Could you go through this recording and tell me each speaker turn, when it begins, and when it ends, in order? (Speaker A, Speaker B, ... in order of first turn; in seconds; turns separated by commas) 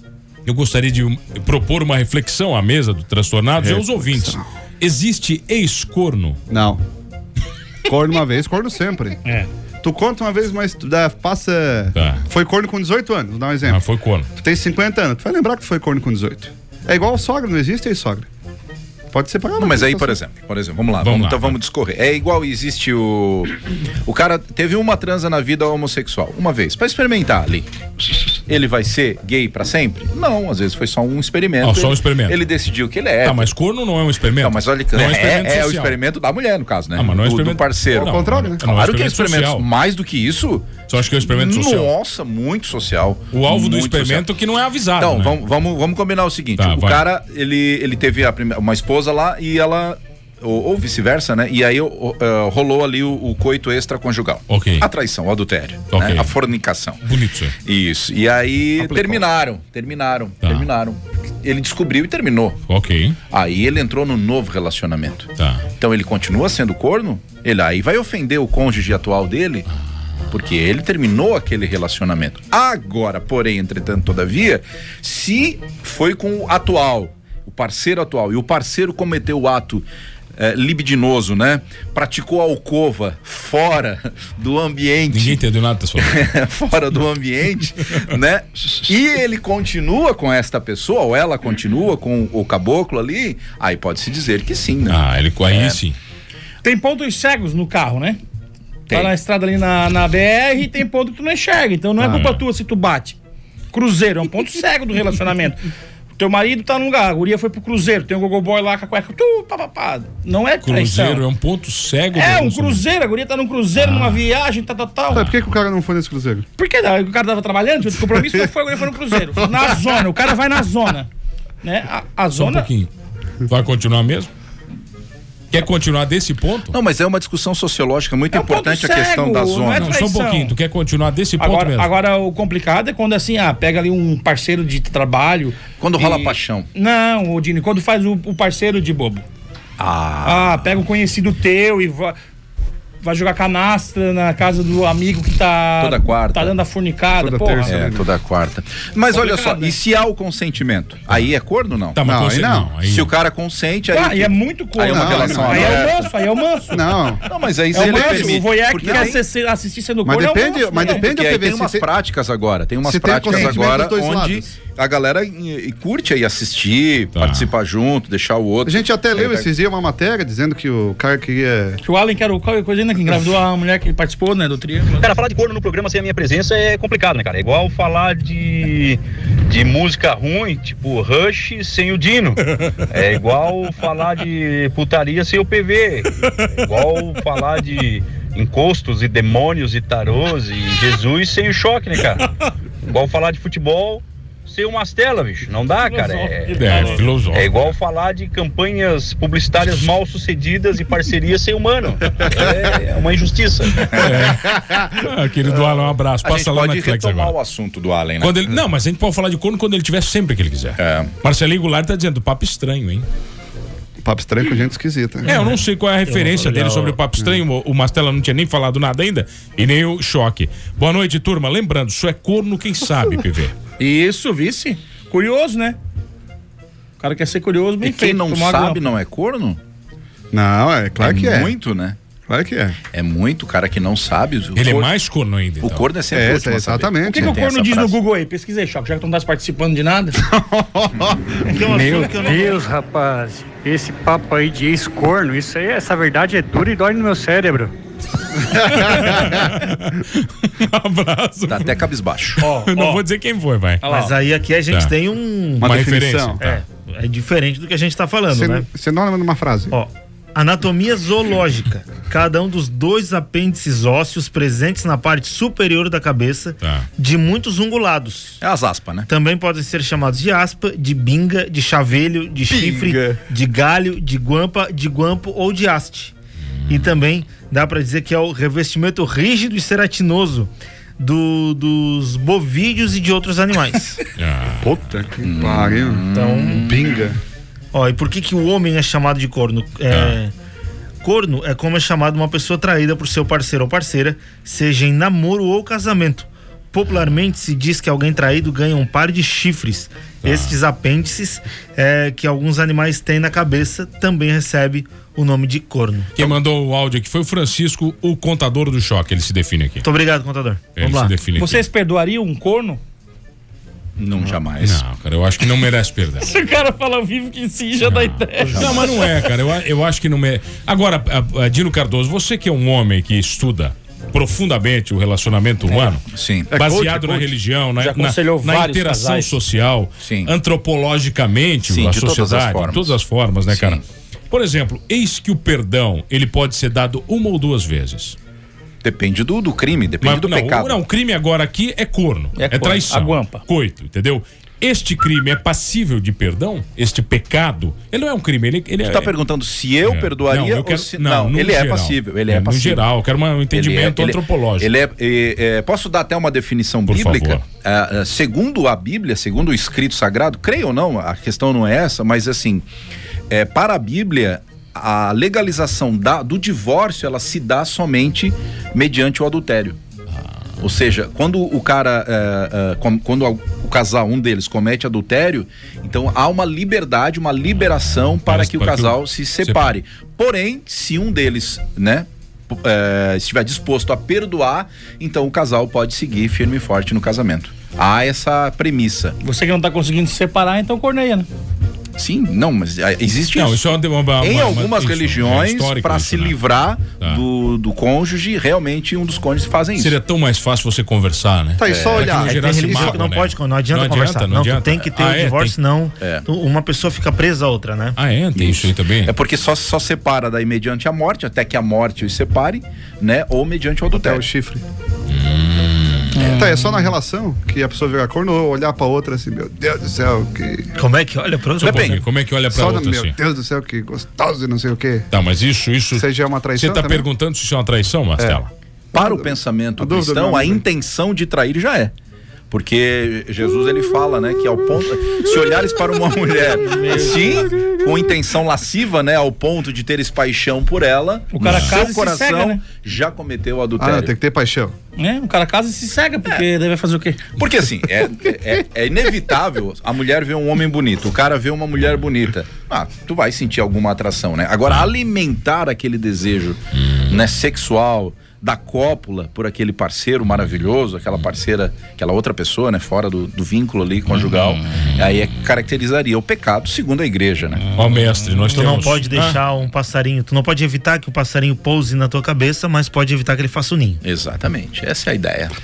Speaker A: 0.5-6.4, Speaker B: 3.6-4.4, Speaker B: 6.5-6.8, Speaker B: 7.9-9.2, Speaker B: 9.8-13.8, Speaker A: 11.9-12.2, Speaker A: 13.6-14.3, Speaker B: 14.4-18.3, Speaker B: 19.1-20.2, Speaker C: 19.6-23.5, Speaker A: 21.0-21.6, Speaker C: 24.1-33.5, Speaker A: 31.6-32.4, Speaker A: 33.2-36.0, Speaker C: 34.4-44.3, Speaker A: 37.0-39.7, Speaker B: 37.9-38.6, Speaker A: 40.9-41.9, Speaker A: 43.3-45.4, Speaker C: 45.0-57.0, Speaker A: 46.6-47.0, Speaker A: 54.5-54.9, Speaker A: 55.9-56.3, Speaker A: 57.0-57.6, Speaker C: 57.6-62.6, Speaker A: 58.8-59.1, Speaker A: 60.4-60.7, Speaker A: 62.7-63.2, Speaker C: 63.3-69.7, Speaker A: 65.4-65.7, Speaker C: 70.3-85.4, Speaker A: 85.1-86.3, Speaker C: 86.0-95.8, Speaker A: 94.9-96.0, Speaker D: 96.6-98.2, Speaker D: 98.9-103.2, Speaker A: 102.0-102.4, Speaker D: 103.7-105.6, Speaker D: 106.2-111.2, Speaker A: 110.6-112.8, Speaker D: 112.2-115.3, Speaker A: 113.8-114.2, Speaker A: 115.1-115.5, Speaker B: 115.1-116.5, Speaker D: 116.6-121.1, Speaker B: 118.2-118.4, Speaker B: 119.4-119.8, Speaker D: 121.6-122.7, Speaker A: 122.3-122.9, Speaker A: 123.5-124.3, Speaker A: 125.5-126.8, Speaker C: 126.7-129.9, Speaker D: 128.3-130.6, Speaker A: 129.8-131.9, Speaker D: 131.4-139.2, Speaker C: 135.8-136.7, Speaker C: 139.8-140.7, Speaker D: 140.2-142.2, Speaker D: 143.0-147.8, Speaker C: 145.8-146.6, Speaker B: 147.2-148.1, Speaker C: 147.7-152.0, Speaker D: 149.1-149.8, Speaker A: 151.9-153.1, Speaker B: 152.1-152.8, Speaker C: 152.8-156.1, Speaker D: 153.9-157.0, Speaker B: 154.8-155.9, Speaker B: 156.7-159.2, Speaker C: 157.2-159.2, Speaker D: 157.7-161.1, Speaker B: 160.0-161.9, Speaker C: 160.8-169.5, Speaker B: 162.8-164.6, Speaker D: 163.3-163.6, Speaker A: 167.2-167.5, Speaker B: 168.7-171.8, Speaker D: 171.8-175.1, Speaker E: 175.0-192.2, Speaker E: 192.9-203.9, Speaker D: 195.8-197.2, Speaker A: 196.6-197.7, Speaker C: 203.8-204.2, Speaker A: 203.8-207.3, Speaker C: 206.2-208.4, Speaker A: 208.2-213.1, Speaker C: 210.8-211.1, Speaker B: 214.0-215.3, Speaker F: 215.3-217.0, Speaker A: 215.3-223.5, Speaker D: 223.8-225.8, Speaker D: 227.0-228.8, Speaker C: 227.8-229.6, Speaker B: 230.3-231.6, Speaker C: 231.0-232.0, Speaker B: 232.3-232.8, Speaker C: 232.9-234.9, Speaker A: 234.6-235.9, Speaker C: 235.6-238.0, Speaker B: 236.1-237.4, Speaker D: 237.0-240.2, Speaker B: 240.2-241.6, Speaker F: 241.5-242.6, Speaker G: 241.7-247.7, Speaker B: 248.4-249.6, Speaker A: 248.7-251.8, Speaker C: 251.5-252.4, Speaker D: 252.4-253.0, Speaker A: 252.4-253.8, Speaker D: 253.8-254.2, Speaker F: 253.9-255.8, Speaker B: 255.6-256.4, Speaker A: 255.6-256.6, Speaker F: 256.4-258.7, Speaker B: 258.3-259.8, Speaker F: 259.7-268.4, Speaker A: 266.6-266.9, Speaker C: 268.4-269.1, Speaker F: 269.1-276.1, Speaker C: 272.6-272.9, Speaker A: 276.6-277.0, Speaker F: 276.7-284.0, Speaker A: 284.2-284.8, Speaker B: 284.6-286.0, Speaker C: 285.2-286.9, Speaker F: 286.1-286.7, Speaker B: 286.6-287.2, Speaker F: 287.7-290.3, Speaker A: 289.9-290.2, Speaker F: 291.0-306.1, Speaker A: 300.2-300.6, Speaker A: 306.2-309.9, Speaker F: 309.8-311.1, Speaker A: 310.8-311.6, Speaker D: 311.4-312.8, Speaker C: 314.0-314.8, Speaker A: 314.6-316.3, Speaker D: 316.2-319.1, Speaker A: 317.8-338.2, Speaker C: 318.4-318.9, Speaker C: 326.1-326.5, Speaker B: 326.5-327.3, Speaker D: 327.8-329.4, Speaker C: 330.0-330.3, Speaker C: 331.7-333.0, Speaker C: 333.5-333.8, Speaker C: 338.8-340.8, Speaker A: 340.0-349.1, Speaker D: 342.4-343.4, Speaker C: 348.9-352.8, Speaker A: 349.9-354.7, Speaker C: 353.5-362.7, Speaker A: 356.9-357.4, Speaker C: 363.3-369.8, Speaker C: 370.6-389.2, Speaker A: 378.1-379.8, Speaker D: 389.2-391.3, Speaker C: 392.0-393.6, Speaker A: 393.4-396.4, Speaker C: 394.2-400.0, Speaker A: 399.8-405.6, Speaker B: 401.6-403.0, Speaker C: 401.6-402.2, Speaker F: 402.1-408.0, Speaker A: 408.0-409.1, Speaker C: 408.4-414.2, Speaker B: 413.9-414.6, Speaker A: 415.1-416.1, Speaker D: 416.1-416.9, Speaker B: 416.3-420.8, Speaker F: 420.8-422.0, Speaker C: 421.6-422.0, Speaker A: 421.6-423.1, Speaker B: 422.5-425.1, Speaker A: 425.1-428.5, Speaker B: 426.0-427.1, Speaker C: 428.9-431.9, Speaker B: 428.9-430.6, Speaker C: 432.5-444.1, Speaker D: 436.6-437.6, Speaker D: 441.3-442.6, Speaker A: 441.4-441.7, Speaker B: 443.8-444.8, Speaker D: 445.0-447.2, Speaker C: 447.4-467.8, Speaker A: 456.8-457.1, Speaker A: 467.8-469.4, Speaker F: 468.5-474.0, Speaker C: 474.0-475.5